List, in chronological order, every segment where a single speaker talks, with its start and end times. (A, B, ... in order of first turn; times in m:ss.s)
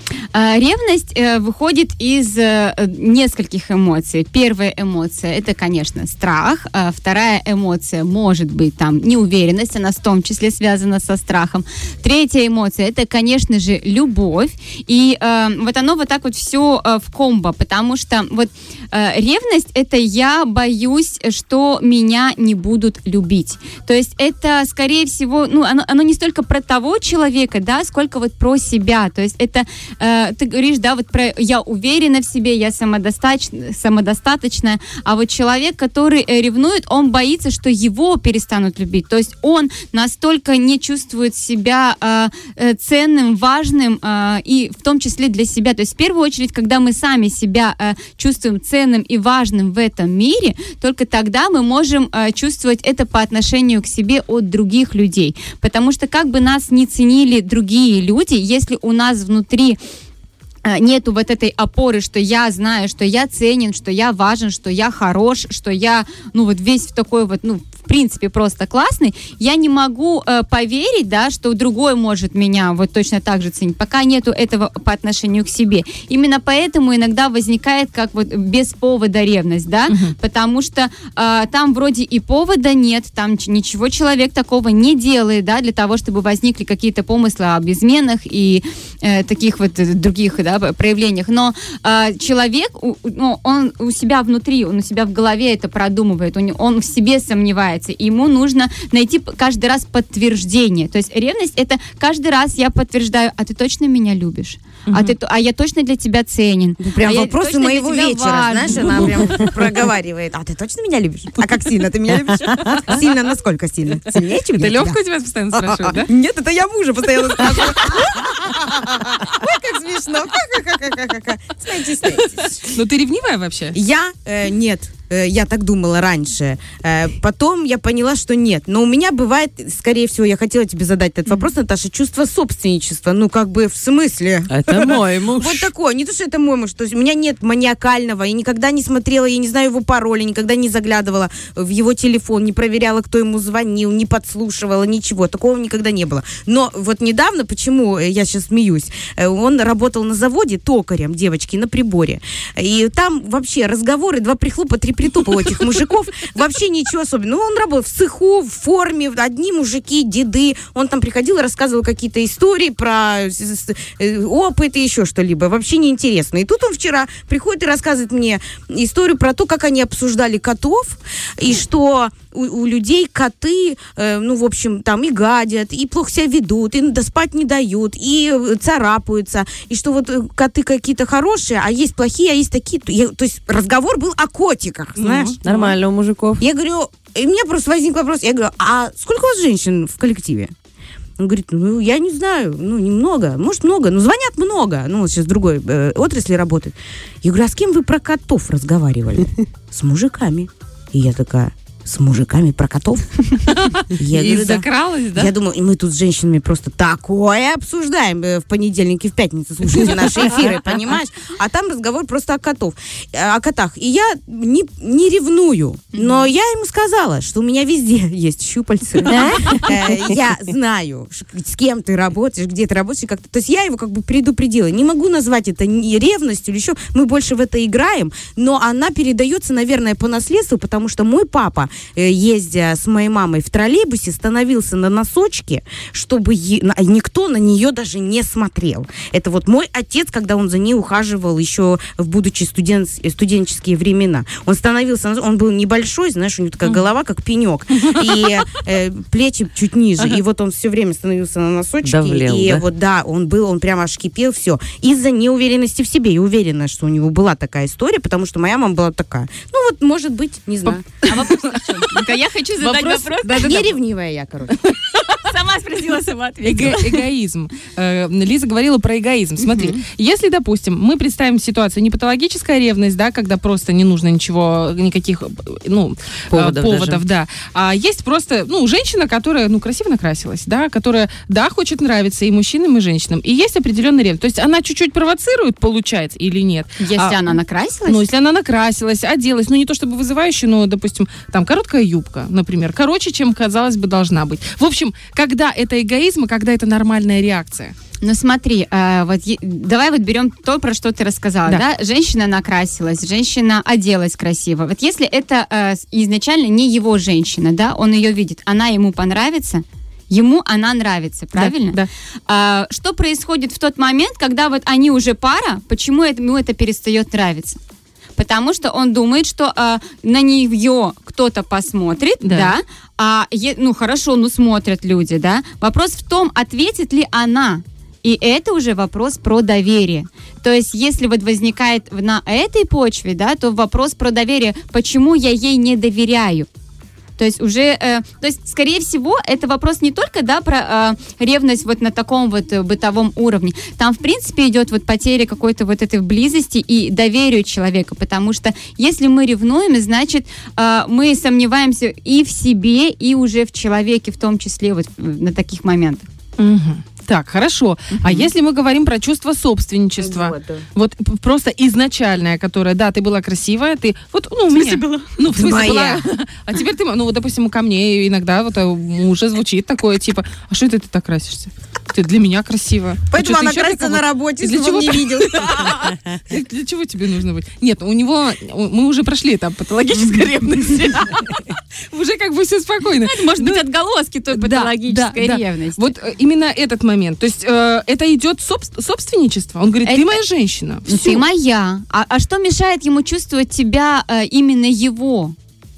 0:00.3-0:59.8 A
1:00.6-1:49.2 A
1:19.9-1:20.2 B
1:44.9-1:45.2 B
1:46.8-1:55.0 C
1:54.6-1:56.1 B
1:55.5-2:02.7 C
2:02.6-2:03.8 B
2:03.7-3:05.4 C
2:14.5-2:15.7 D
3:05.0-3:05.7 B
3:05.4-3:06.4 D
3:06.4-3:10.5 C
3:11.2-3:23.2 C
3:23.4-3:25.3 B
3:23.9-4:20.9 C
3:35.9-3:36.3 A
3:39.1-3:39.7 D
3:39.1-3:39.7 A
4:07.8-4:08.2 B
4:11.8-4:12.6 D
4:20.6-4:21.3 B
4:21.0-4:23.6 A
4:21.8-4:23.7 B
4:23.2-4:24.6 C
4:24.6-4:25.0 B
4:25.1-4:27.0 A
4:26.4-4:57.8 B
4:29.5-4:29.8 A
4:36.3-4:37.0 D
4:46.8-4:48.0 A
4:58.0-5:17.6 A
5:11.4-5:11.9 B
5:18.2-5:36.5 A
5:22.2-5:22.5 B
5:37.2-5:56.0 A
5:56.4-6:23.6 B
6:00.0-6:00.6 C
6:04.6-6:05.0 A
6:05.2-6:06.0 C
6:13.1-6:15.9 C
6:23.0-6:25.9 A
6:24.3-6:31.2 B
6:29.8-6:30.1 A
6:30.9-6:35.3 A